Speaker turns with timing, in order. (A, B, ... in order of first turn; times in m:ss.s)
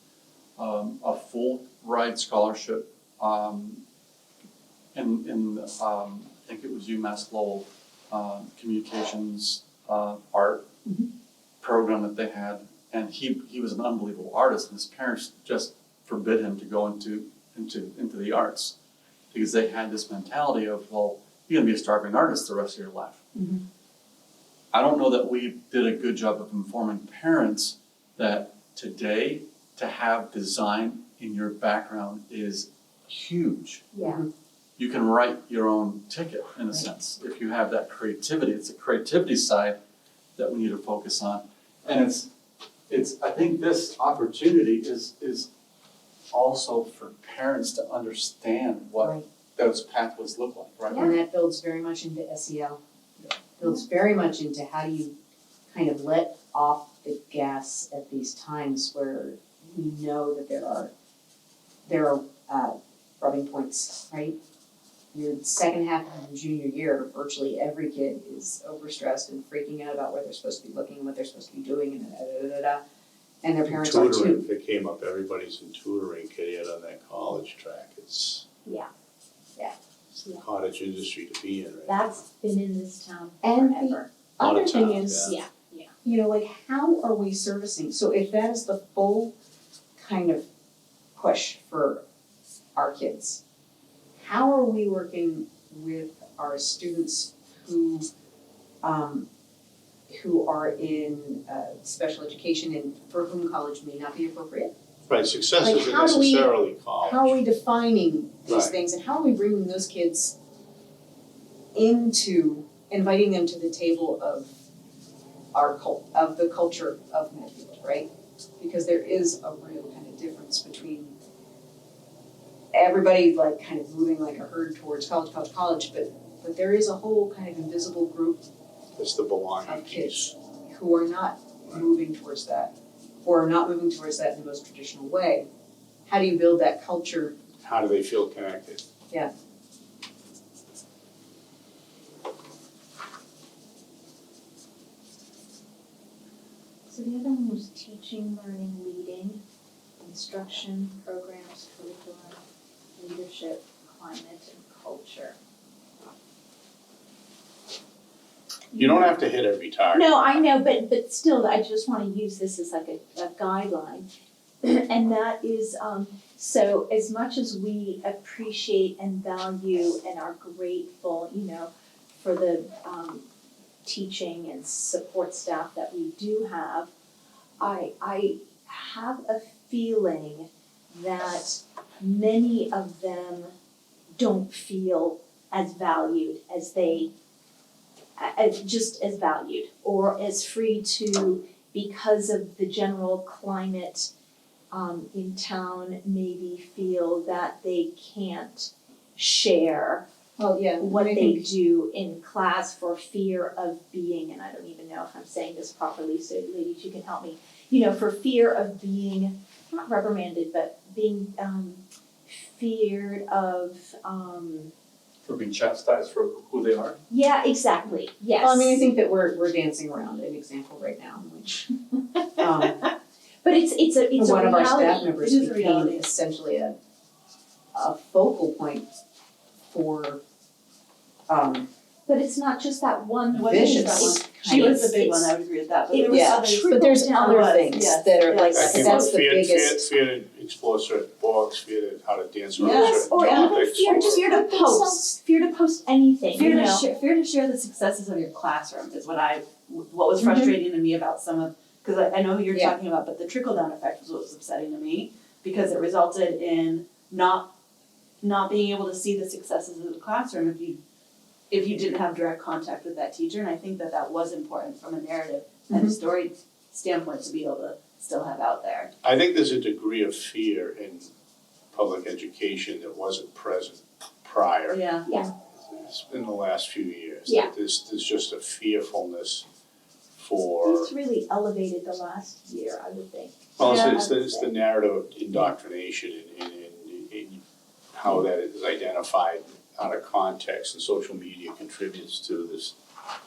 0:00.6-0:03.8 A
0:04.9-0:10.7 A
0:11.6-0:18.8 A
0:19.3-0:23.2 A
0:24.7-0:33.9 A
0:33.9-0:34.2 B
0:34.8-0:39.8 A
0:40.4-0:42.3 A
0:42.9-0:45.5 A
0:46.3-0:51.1 A
0:50.9-0:51.2 B
0:50.9-0:52.8 C
0:53.6-0:55.1 C
0:55.7-1:00.9 C
1:01.8-1:04.4 C
1:05.1-1:12.8 C
1:13.4-1:14.5 C
1:13.7-1:18.4 D
1:20.2-1:22.2 D
1:21.9-1:24.1 B
1:23.4-1:25.4 C
1:24.4-1:25.4 D
1:25.1-1:25.9 B
1:26.0-1:29.3 C
1:30.0-1:30.4 C
1:31.2-1:32.0 C
1:32.8-1:33.4 C
1:34.2-1:38.1 C
1:38.8-1:39.3 C
1:40.1-1:44.7 C
1:45.1-1:47.4 D
1:45.6-1:50.3 C
1:48.5-1:48.8 D
1:51.7-1:54.5 C
1:55.5-1:58.1 C
1:58.6-2:01.2 C
2:02.7-2:08.4 C
2:09.0-2:10.3 D
2:09.7-2:12.7 C
2:13.2-2:15.5 C
2:16.1-2:17.4 C
2:17.6-2:18.8 D
2:26.9-2:29.4 B
2:30.0-2:32.4 B
2:33.0-2:35.4 B
2:38.7-2:39.1 B
2:38.7-2:40.4 D
2:39.9-2:44.1 B
2:44.6-2:53.2 B
2:53.8-2:56.9 B
2:57.6-3:03.5 B
3:04.2-3:07.1 B
3:08.2-3:14.1 B
3:14.7-3:20.1 B
3:20.4-3:21.5 C
3:20.8-3:34.7 B
3:35.3-3:37.0 A
3:37.1-3:38.8 B
3:38.4-3:41.6 C
3:42.2-3:42.7 B
3:42.4-3:42.8 C
3:43.4-3:45.4 B
3:44.2-3:46.8 C
3:45.2-3:46.1 E
3:47.7-3:48.9 C
3:49.7-3:50.2 C
3:51.3-3:51.7 C
3:52.1-3:55.4 B
3:53.3-3:59.1 E
3:53.4-3:54.8 C
3:55.9-3:58.0 B
3:56.1-3:59.9 C
3:58.5-4:04.3 D
3:58.7-3:59.1 B
4:02.6-4:06.8 B
4:02.6-4:05.0 E
4:04.0-4:05.0 C
4:06.3-4:17.5 E
4:10.2-4:10.5 B
4:12.5-4:12.8 C
4:18.2-4:20.8 E
4:21.5-4:28.9 E
4:29.0-4:31.1 D
4:31.7-4:34.8 D
4:34.7-4:35.1 E
4:35.6-4:39.5 D
4:37.3-4:37.5 B
4:40.2-4:40.9 D
4:40.6-4:44.5 B
4:43.6-4:47.4 D
4:47.9-4:52.8 D